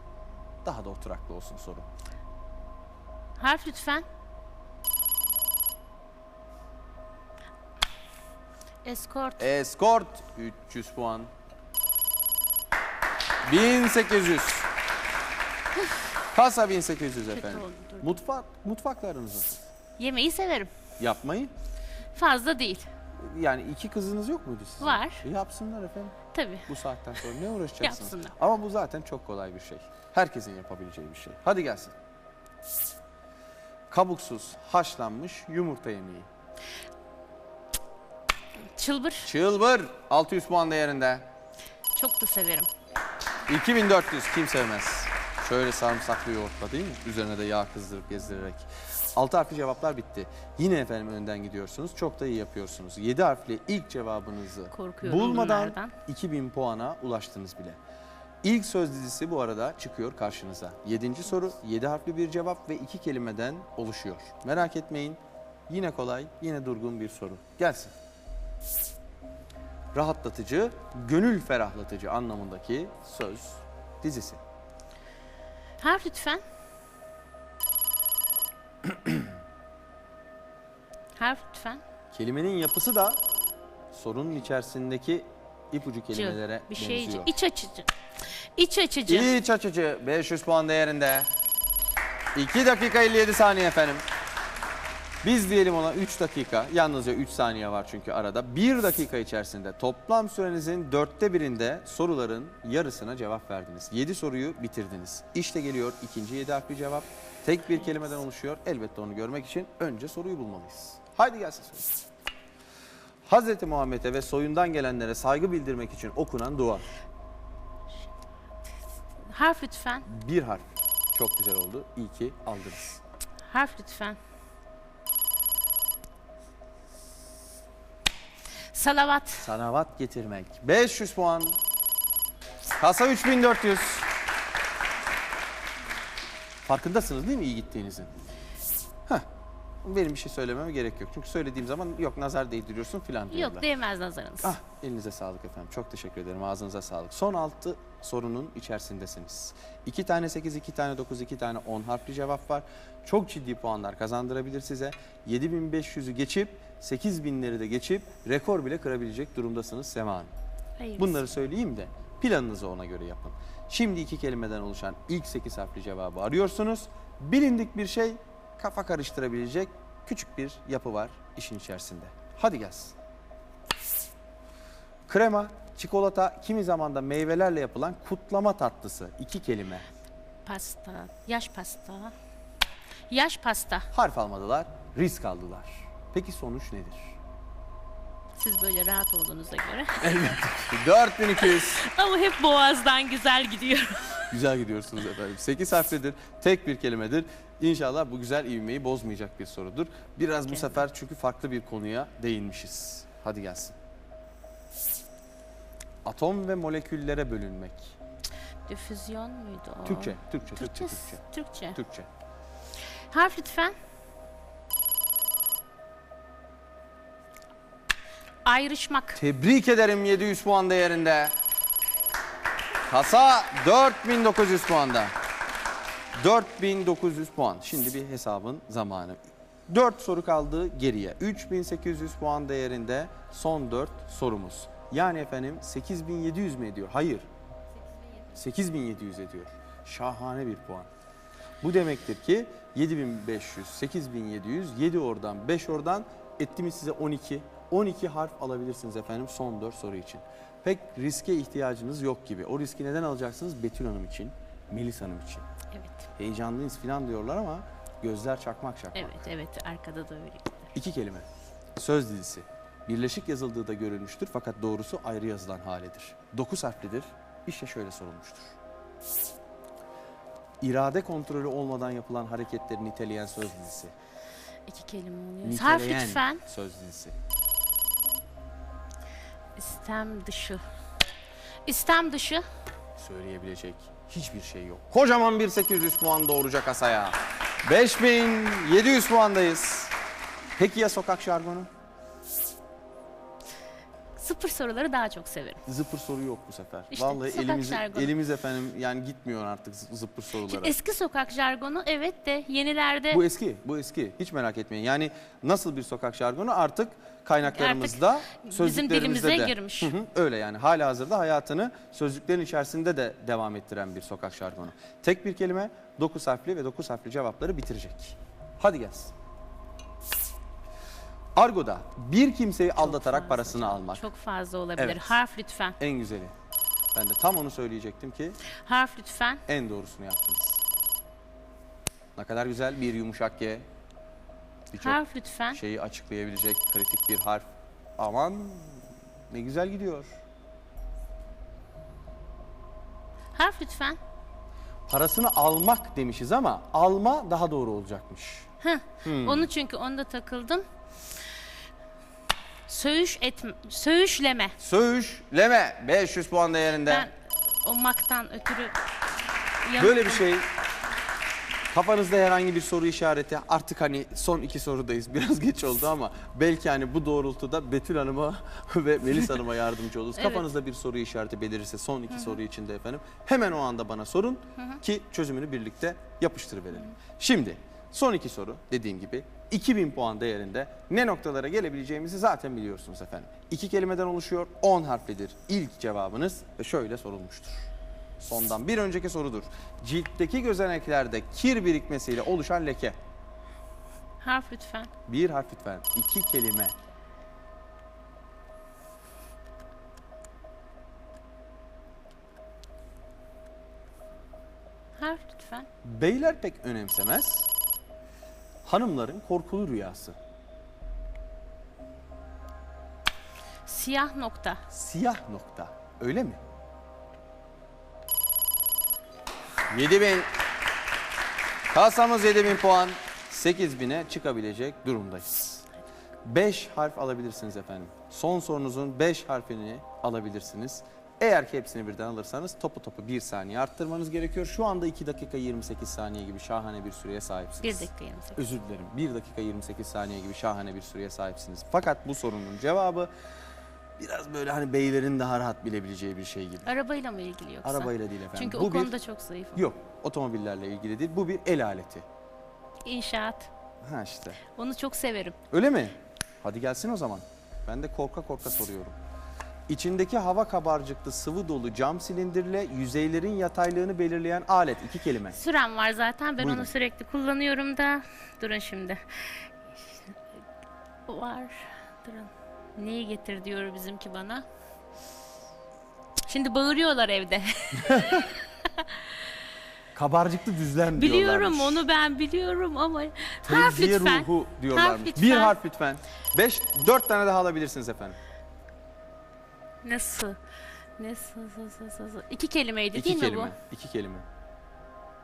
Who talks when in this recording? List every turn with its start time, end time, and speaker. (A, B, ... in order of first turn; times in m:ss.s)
0:00.6-0:01.9 A
0:03.4-0:04.1 B
0:08.8-0:09.5 B
0:09.4-0:11.3 A
0:13.5-0:14.7 A
0:16.2-0:19.7 A
0:17.3-0:18.1 B
0:20.0-0:20.7 B
0:21.0-0:21.5 A
0:22.2-0:22.9 B
0:23.2-0:26.2 A
0:24.8-0:25.2 B
0:26.3-0:26.7 B
0:26.7-0:32.0 A
0:27.8-0:28.3 B
0:33.9-0:36.3 A
0:38.8-0:39.3 B
0:39.2-0:41.3 A
0:42.0-0:42.7 B
0:43.5-0:57.8 A
0:54.7-0:55.9 B
0:58.4-1:07.9 A
1:09.9-1:14.4 A
1:15.8-1:16.4 B
1:21.2-1:21.8 B
1:22.1-1:23.2 A
1:23.9-1:27.3 A
1:26.1-1:27.9 B
1:28.6-1:29.3 B
1:29.1-1:31.3 A
1:32.4-1:34.0 A
1:35.2-1:52.0 A
1:53.3-1:56.9 A
1:59.3-2:00.1 B
2:00.1-2:03.0 A
2:03.5-2:04.2 B
2:08.7-2:09.5 B
2:09.4-2:11.6 A
2:12.8-2:14.1 A
2:16.7-2:18.1 A
2:19.8-2:23.6 A
2:23.3-2:24.6 B
2:24.4-2:40.3 A
2:40.8-2:41.2 B
2:41.0-2:53.0 A
2:55.1-2:59.8 A
3:00.5-3:02.1 B
3:03.1-3:03.9 B
3:03.9-3:07.2 A
3:08.4-3:10.5 B
3:10.0-3:11.8 A
3:11.4-3:14.3 B
3:14.3-3:23.8 A
3:20.5-3:20.8 B
3:26.0-3:28.0 A
3:28.7-3:31.8 B
3:29.8-3:32.1 A
3:33.1-3:33.8 B
3:38.4-3:39.2 B
3:39.2-3:41.4 A
3:42.9-3:45.1 A
3:46.2-3:57.3 A
3:58.3-4:00.9 A
4:01.6-4:15.4 A
4:15.7-4:16.0 B
4:16.2-4:19.2 A
4:18.9-4:20.7 B
4:20.7-4:21.3 A
4:21.8-4:28.6 A
4:30.6-4:33.9 A
4:34.7-4:36.4 B
4:35.4-4:37.2 A
4:39.6-4:40.6 B
4:41.7-4:42.4 B
4:43.0-4:49.9 A
4:50.6-4:51.7 A
4:54.2-4:55.6 B
4:55.7-5:00.7 A
4:56.9-4:58.2 B
5:00.4-5:03.2 B
5:03.1-5:19.1 A
5:07.5-5:10.0 B
5:21.4-5:24.1 A
5:22.8-5:25.8 B
5:24.8-5:25.2 A
5:25.8-5:26.3 A
5:26.9-5:28.4 A
5:28.6-5:29.4 B
5:29.5-5:30.6 A
5:32.2-5:33.7 A
5:34.7-5:35.0 A
5:34.8-5:35.6 B
5:35.5-5:40.2 A
5:43.4-5:44.0 B
5:44.9-5:48.5 A
5:48.6-5:50.7 B
5:49.0-5:49.5 A
5:52.7-5:54.6 B
5:54.6-5:57.1 A
5:56.8-5:57.1 B
5:57.6-5:58.8 B
5:59.7-6:00.3 B
5:59.8-6:00.4 A
6:01.7-6:27.7 A
6:10.2-6:10.5 B
6:12.1-6:12.4 B
6:28.2-6:33.0 A
6:34.2-6:34.9 B
6:35.1-6:36.7 A
6:45.0-6:45.7 B
6:45.8-6:47.5 A
6:48.6-6:50.2 A
6:53.7-6:54.6 B
6:54.7-6:56.4 A
6:59.7-7:00.3 A
7:01.7-7:05.6 A
7:06.2-7:23.1 A
7:17.6-7:18.5 B
7:24.0-7:26.7 A
7:26.6-7:29.7 B
7:27.6-7:28.9 A
7:29.5-7:32.1 A
7:32.8-7:33.5 B
7:33.8-7:34.4 A
7:34.5-7:35.4 B
7:35.5-7:39.0 A
7:39.7-7:45.4 A
7:45.3-7:49.5 B
7:46.4-7:46.7 A
7:51.1-7:54.4 B
7:56.3-7:59.1 B
7:57.8-7:58.3 A
7:59.9-8:01.8 A
8:00.9-8:05.6 B
8:03.4-8:08.2 A
8:09.8-8:10.4 B
8:11.0-8:13.5 B
8:12.9-8:14.2 A